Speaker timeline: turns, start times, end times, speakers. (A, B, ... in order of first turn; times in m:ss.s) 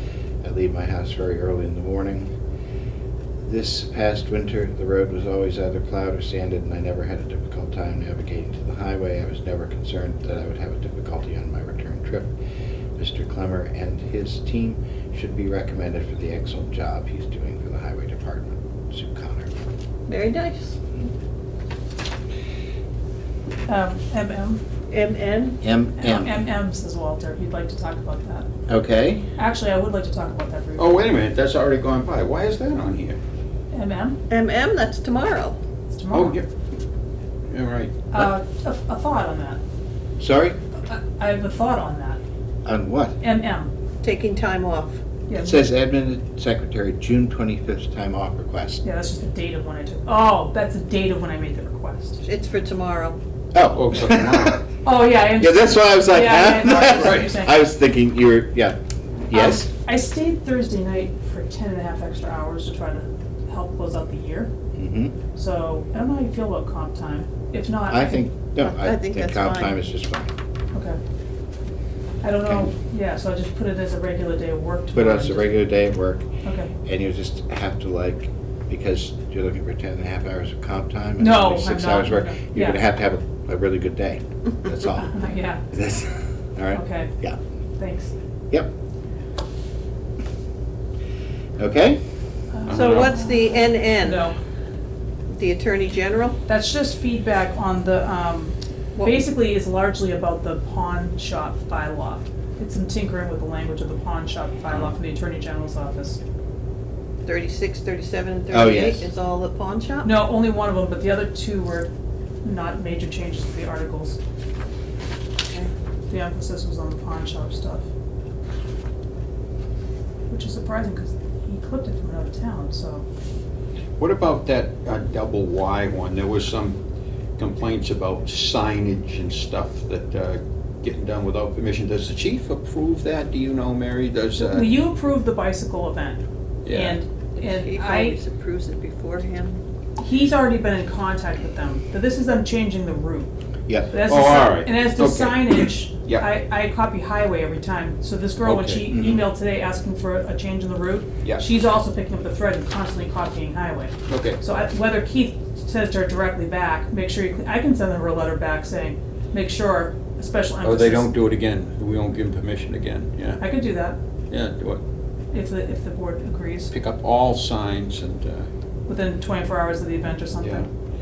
0:00.4-0:02.3 A
0:03.4-0:12.3 A
0:13.0-0:19.5 A
0:20.1-0:20.8 B
0:23.7-0:24.6 C
0:24.9-0:25.6 B
0:25.6-0:26.4 A
0:26.0-0:28.5 C
0:28.7-0:29.2 A
0:29.4-0:30.9 C
0:30.8-0:33.2 D
0:33.7-0:34.2 C
0:34.3-0:35.6 B
0:35.9-0:36.4 C
0:36.1-0:36.4 D
0:37.5-0:38.1 D
0:38.1-0:39.6 C
0:40.2-0:40.6 A
0:40.8-0:42.2 C
0:42.6-0:43.2 A
0:43.2-0:43.7 C
0:44.0-0:45.0 B
0:45.3-0:45.6 C
0:45.3-0:48.8 A
0:48.8-0:52.2 C
0:52.2-0:53.2 B
0:53.5-0:54.6 A
0:53.7-0:54.6 D
0:54.8-0:57.6 C
0:55.2-0:59.7 A
0:56.8-0:57.4 D
0:59.3-1:04.5 C
1:04.8-1:05.1 A
1:05.4-1:08.2 C
1:07.9-1:10.3 A
1:08.6-1:09.8 B
1:10.7-1:11.0 C
1:12.2-1:15.6 C
1:12.4-1:12.7 A
1:14.9-1:16.2 A
1:16.4-1:16.7 C
1:16.8-1:25.1 A
1:21.2-1:22.8 C
1:25.0-1:25.6 C
1:25.7-1:27.4 A
1:26.7-1:27.1 C
1:27.8-1:28.1 C
1:31.6-1:32.0 A
1:32.5-1:34.3 C
1:32.6-1:33.1 D
1:32.7-1:34.3 B
1:35.3-1:36.4 B
1:36.5-1:46.2 C
1:38.9-1:39.2 B
1:44.7-1:45.0 D
1:47.2-1:50.2 B
1:48.5-1:49.1 A
1:50.0-1:51.9 C
1:52.4-1:54.2 C
1:56.1-1:57.8 C
2:00.3-2:03.0 C
2:04.0-2:06.8 D
2:07.4-2:14.8 D
2:14.4-2:18.2 C
2:16.6-2:17.0 D
2:17.4-2:19.6 B
2:20.0-2:23.3 C
2:23.7-2:24.0 A
2:23.9-2:41.1 C
2:24.0-2:26.3 D
2:28.4-2:29.0 D
2:28.9-2:29.3 A
2:34.1-2:34.4 D
2:40.6-2:43.6 D
2:43.4-2:44.0 C
2:44.3-2:44.8 D
2:45.3-2:46.7 C
2:46.7-2:48.5 D
2:48.9-2:50.6 C
2:50.4-2:50.6 D